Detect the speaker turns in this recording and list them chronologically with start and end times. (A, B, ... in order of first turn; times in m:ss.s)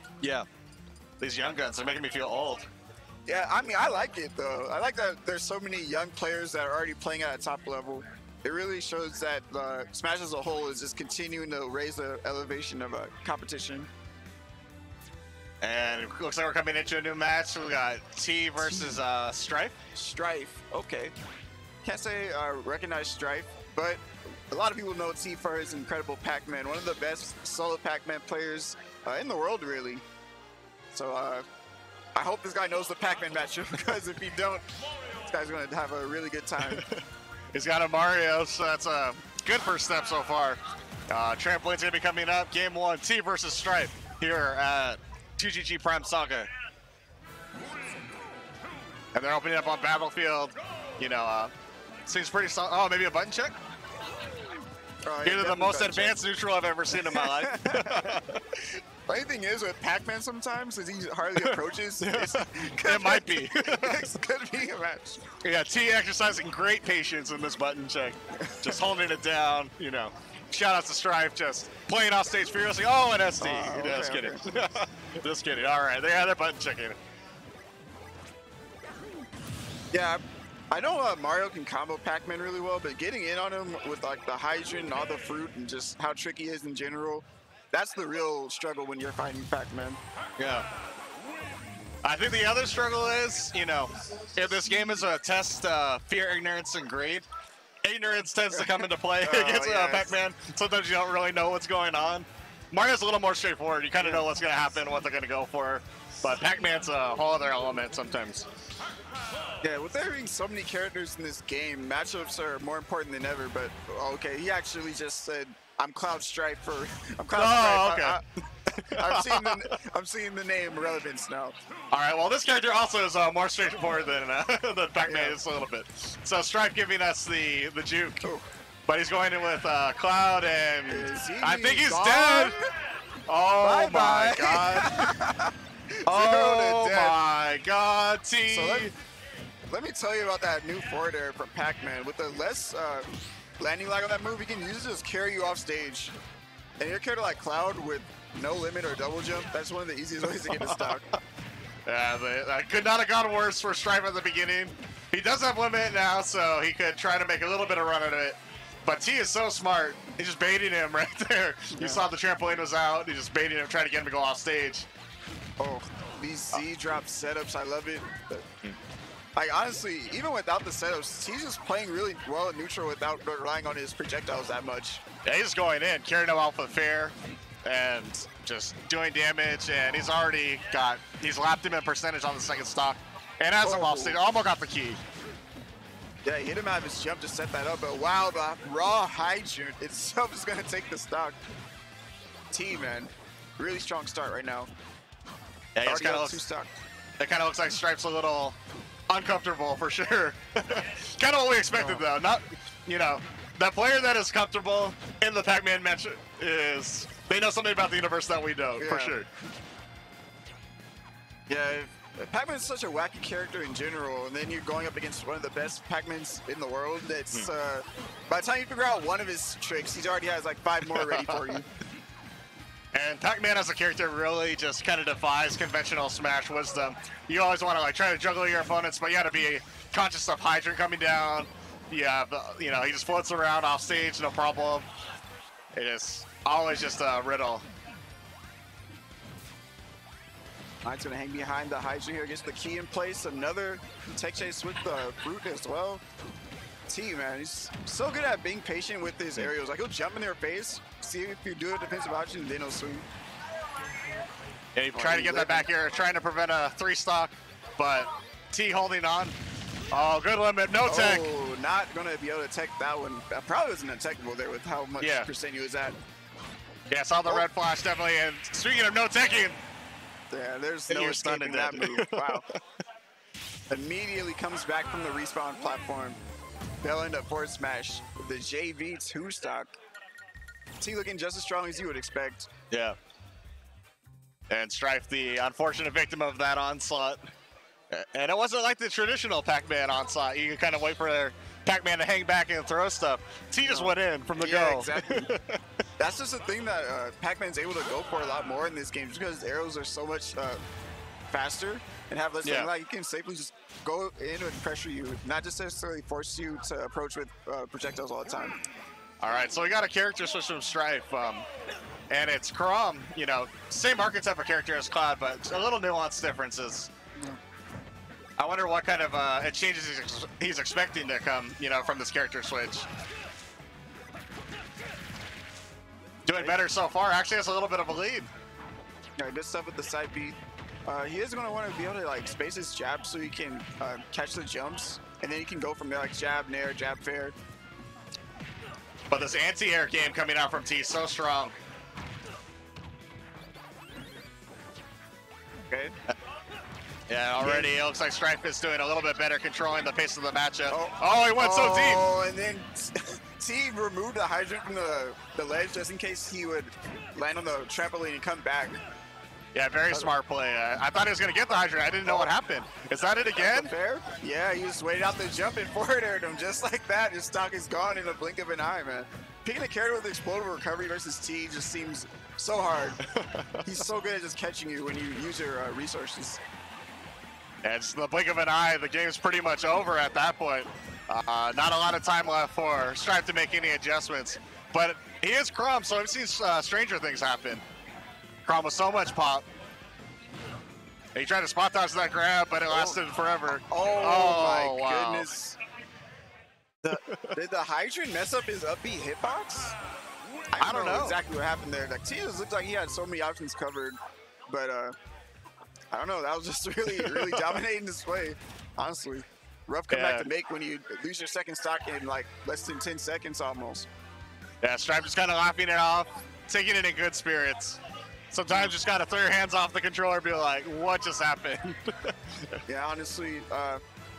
0:00.2-0:00.5 A
0:01.2-0:02.7 A
0:03.3-0:13.9 B
0:15.6-0:19.8 A
0:18.6-0:19.0 B
0:20.0-0:21.1 B
0:21.8-0:30.0 B
0:30.9-0:31.5 B
0:32.2-0:34.7 B
0:35.2-0:36.8 B
0:36.6-0:37.0 A
0:37.5-0:46.5 A
0:49.1-0:51.5 A
0:52.1-0:53.5 A
0:55.0-0:56.2 B
0:55.2-0:58.4 A
0:56.9-1:05.4 B
1:01.4-1:04.1 A
1:05.4-1:17.0 A
1:08.4-1:08.8 B
1:13.4-1:14.4 B
1:19.9-1:30.0 B
1:30.4-1:30.7 A
1:32.0-1:37.3 A
1:37.8-1:48.5 A
1:38.5-1:40.2 B
1:44.0-1:44.3 B
1:49.6-1:58.2 B
1:57.3-1:59.7 A
1:58.9-2:01.6 B
2:01.9-2:08.2 A
2:05.0-2:05.4 B
2:08.9-2:12.6 A
2:10.9-2:12.7 B
2:13.3-2:15.1 A
2:13.6-2:17.2 B
2:16.1-2:18.9 A
2:18.5-2:18.9 B
2:19.7-2:23.1 B
2:23.6-2:26.1 B
2:26.8-2:31.2 B
2:30.5-2:31.0 A
2:31.9-2:44.9 A
2:41.7-2:42.0 B
2:45.6-2:48.5 B
2:49.4-2:55.0 B
2:55.2-2:57.1 A
2:57.6-3:05.0 A
3:03.6-3:04.2 B
3:06.2-3:11.4 B
3:12.5-3:14.7 B
3:15.8-3:16.4 A
3:15.8-3:16.7 B
3:17.2-3:18.6 A
3:19.1-3:29.3 A
3:21.7-3:22.0 B
3:28.8-3:29.2 B
3:31.5-3:41.7 B
3:40.9-3:41.6 A
3:42.9-3:54.9 A
3:55.8-3:57.7 A
4:00.8-4:06.0 B
4:06.9-4:13.0 B
4:14.8-4:19.4 A
4:14.9-4:15.7 B
4:19.9-4:21.3 A
4:20.9-4:26.0 B
4:25.0-4:25.3 A
4:26.9-4:29.6 A
4:30.3-4:32.5 B
4:30.9-4:32.6 A
4:33.7-4:36.2 B
4:36.8-4:39.7 B
4:40.8-4:42.5 B
4:42.7-4:43.0 A
4:44.5-4:47.2 A
4:47.9-4:55.6 A
4:53.6-4:55.3 B
4:56.0-5:00.6 B
5:01.3-5:08.6 B
5:02.4-5:02.7 A
5:09.2-5:11.5 A
5:12.1-5:16.9 A
5:18.4-5:22.9 A
5:26.3-5:28.3 A
5:29.2-5:37.4 B
5:39.1-5:41.6 A
5:47.1-5:52.0 A
5:47.4-5:47.7 B
5:50.7-5:58.8 B
5:59.6-6:03.7 A
6:02.0-6:02.3 B
6:03.4-6:13.0 B
6:13.0-6:13.7 A
6:13.6-6:16.4 B
6:17.6-6:27.6 A
6:28.4-6:29.4 A
6:31.2-6:35.3 A
6:32.7-6:33.0 B
6:33.7-6:35.6 B
6:36.8-6:39.8 B
6:36.9-6:37.4 A
6:40.5-6:44.0 B
6:40.6-6:41.2 A
6:44.5-6:45.0 B
6:45.9-6:53.9 B
6:46.9-6:47.6 A
6:49.9-6:50.3 A
6:54.6-6:57.8 A
6:58.3-7:02.6 A
7:02.7-7:03.8 B